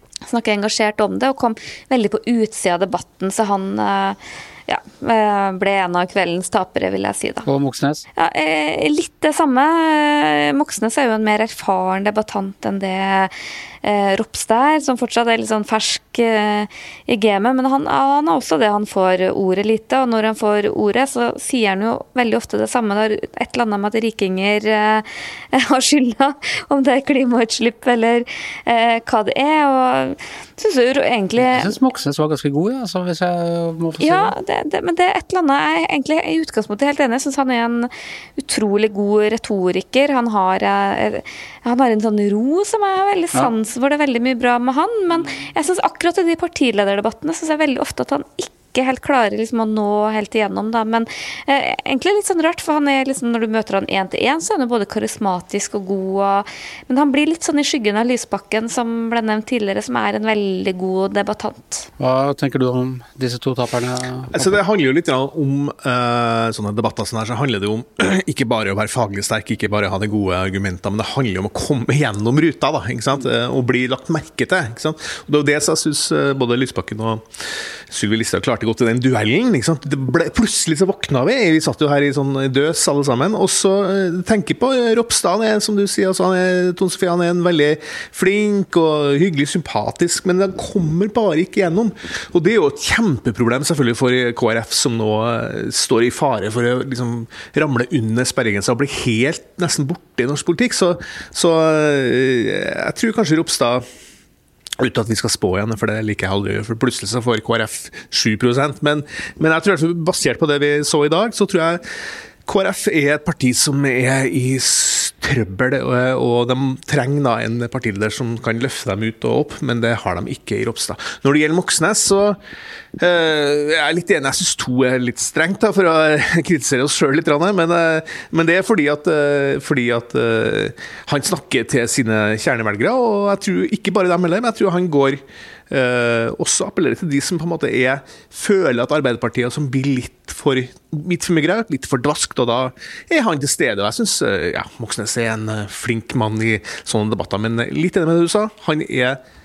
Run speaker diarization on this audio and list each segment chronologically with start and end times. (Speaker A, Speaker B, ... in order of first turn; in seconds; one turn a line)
Speaker A: 0.3-7.5
Speaker B: 7.5-8.0
Speaker A: 8.2-31.7
Speaker B: 31.4-34.3
Speaker A: 34.0-61.9
Speaker B: 62.0-64.5
Speaker C: 64.3-77.2
Speaker C: 77.9-103.8
Speaker C: 104.8-111.8
Speaker C: 112.5-122.4
Speaker C: 123.0-149.2